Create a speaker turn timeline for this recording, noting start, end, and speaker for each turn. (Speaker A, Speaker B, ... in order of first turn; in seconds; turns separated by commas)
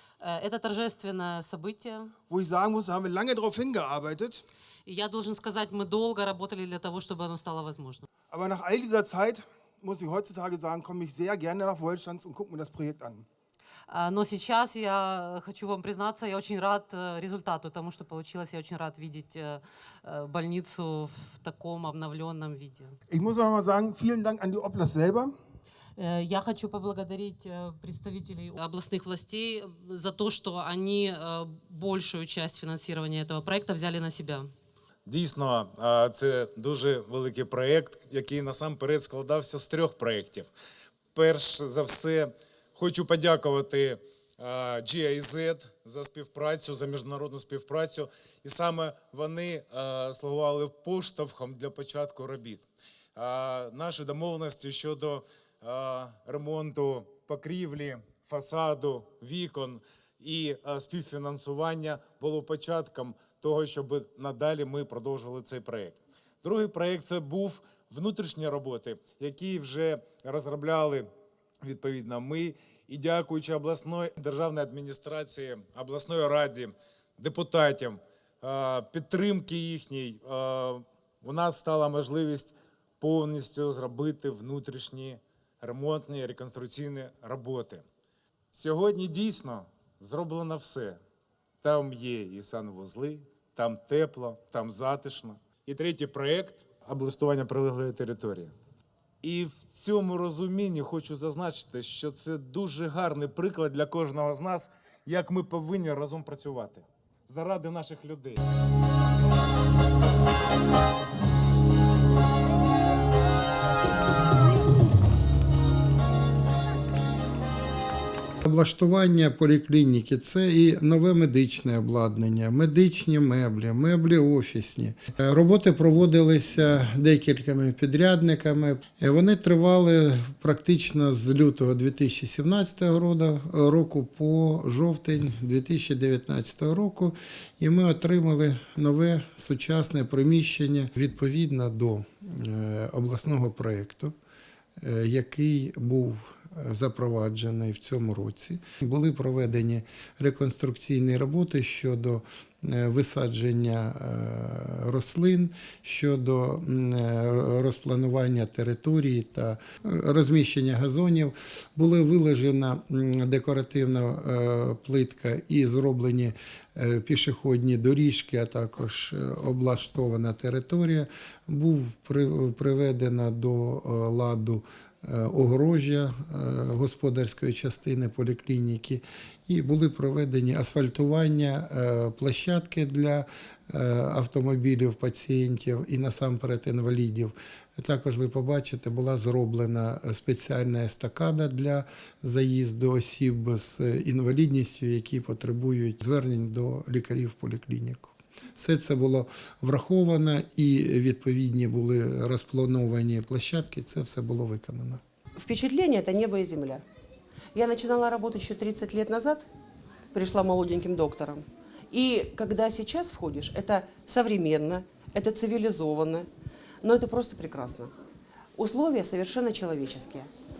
Speaker A: 0.2-2.1, Speaker B: 2.3-4.5, Speaker A: 4.8-8.1, Speaker B: 8.3-13.3, Speaker A: 13.9-22.9, Speaker B: 23.1-25.3, Speaker A: 26.0-34.5, Speaker C: 35.0-40.5, Speaker C: 41.1-71.1, Speaker C: 71.6-87.8, Speaker C: 88.5-91.0, Speaker C: 91.6-98.5, Speaker C: 99.2-108.4, Speaker D: 118.5-144.1, Speaker D: 144.8-205.0, Speaker E: 205.4-206.8, Speaker E: 207.5-209.4, Speaker E: 210.1-216.3, Speaker E: 216.8-217.9, Speaker E: 218.6-220.3